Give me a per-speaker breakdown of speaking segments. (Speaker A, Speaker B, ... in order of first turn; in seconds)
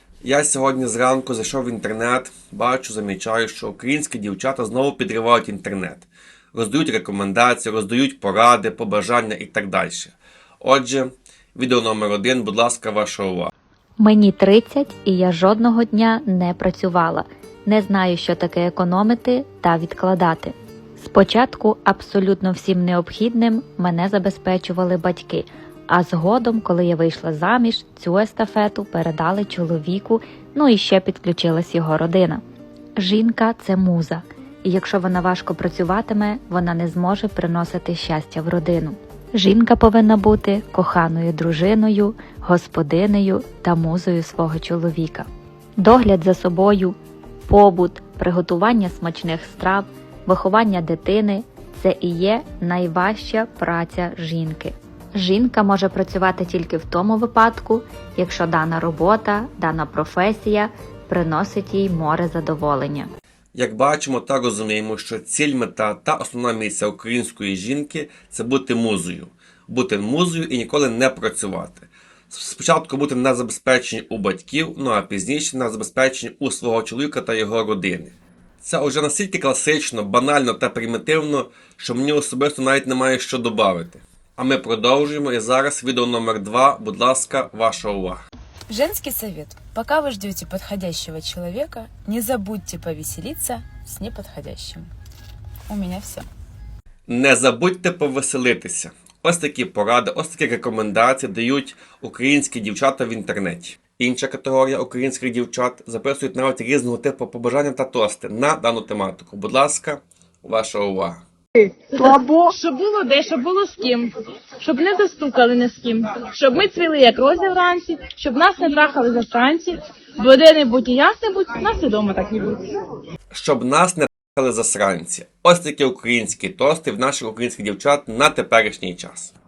Speaker A: 0.2-13.5, 63.5-88.2, 97.1-111.2, 123.3-129.3
Speaker B: 14.0-32.4, 33.0-45.3, 45.8-47.0, 47.5-63.1
Speaker C: 88.7-94.9, 95.7-96.3
Speaker D: 111.9-122.7